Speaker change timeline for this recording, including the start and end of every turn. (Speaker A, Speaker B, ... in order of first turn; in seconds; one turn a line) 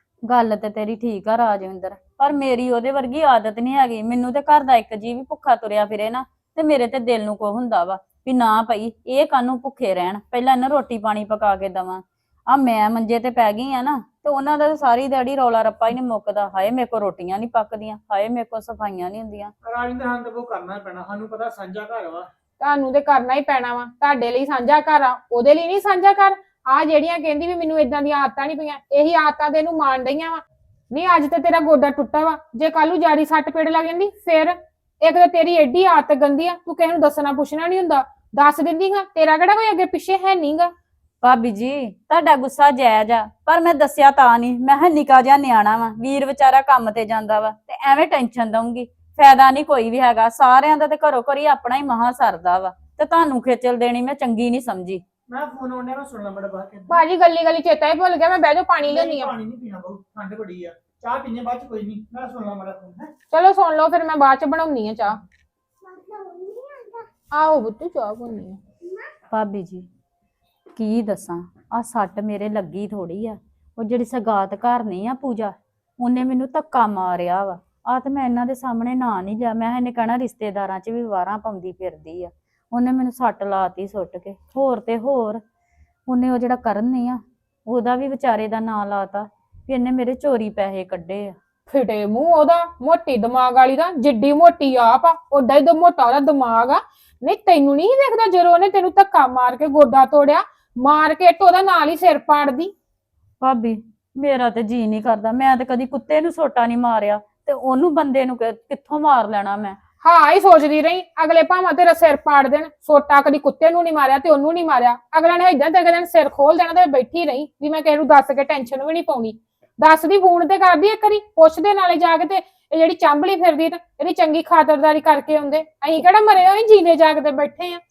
Speaker A: 0.2-19.5
Speaker B: 19.6-22.3
Speaker C: 22.6-40.7
Speaker A: 41.2-55.0
Speaker B: 55.3-57.0
Speaker C: 56.9-59.3
Speaker B: 58.8-63.1
Speaker C: 63.3-65.2
Speaker C: 66.0-68.6
Speaker A: 69.3-69.9
Speaker A: 70.7-85.4
Speaker A: 86.1-91.3
Speaker C: 91.7-102.7
Speaker A: 103.4-109.8
Speaker C: 110.0-127.8